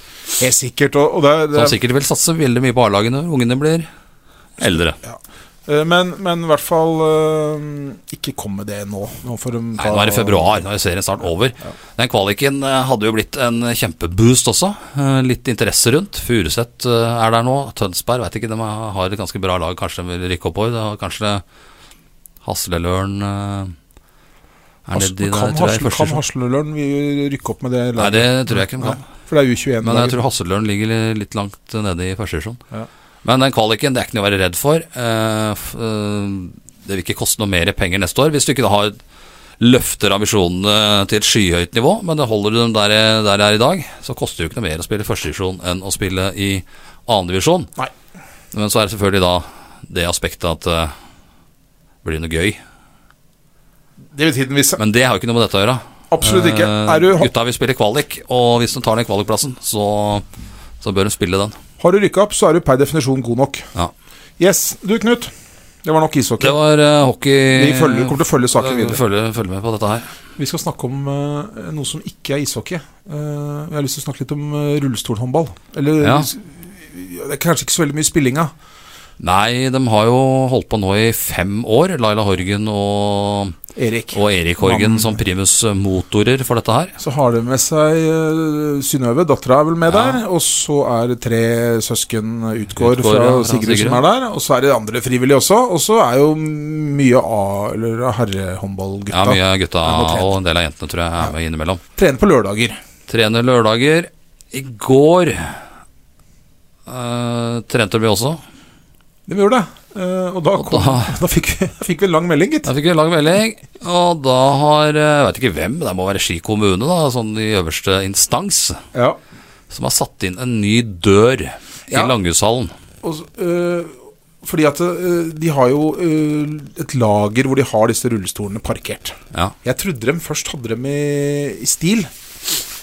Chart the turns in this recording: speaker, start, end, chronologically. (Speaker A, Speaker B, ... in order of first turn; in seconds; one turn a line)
Speaker A: 0.4-1.8
Speaker B: 1.5-3.9
Speaker B: 4.6-5.0
Speaker A: 5.0-10.6
Speaker B: 9.8-21.4
Speaker B: 22.4-23.7
Speaker B: 24.9-26.2
Speaker A: 24.9-30.2
Speaker B: 28.0-29.0
Speaker B: 29.8-32.6
Speaker B: 33.2-39.0
Speaker B: 39.6-47.7
Speaker B: 48.5-50.9
Speaker B: 52.0-52.6
Speaker A: 54.1-54.8
Speaker B: 54.8-60.2
Speaker A: 56.1-57.3
Speaker B: 60.8-61.6
Speaker A: 61.8-63.6
Speaker A: 64.4-65.3
Speaker A: 65.8-66.6
Speaker B: 66.4-70.1
Speaker A: 67.5-69.0
Speaker A: 70.4-78.5
Speaker B: 76.0-76.3
Speaker B: 79.2-83.6
Speaker A: 83.7-85.2
Speaker B: 84.1-87.0
Speaker A: 87.0-100.3
Speaker B: 89.9-90.2
Speaker B: 92.8-94.0
Speaker B: 99.1-101.8
Speaker A: 102.0-102.8
Speaker B: 103.1-105.6
Speaker B: 106.9-108.4
Speaker A: 109.3-112.7
Speaker B: 110.6-111.1
Speaker B: 112.7-118.8
Speaker A: 118.9-119.2
Speaker B: 119.7-122.7
Speaker A: 123.0-132.1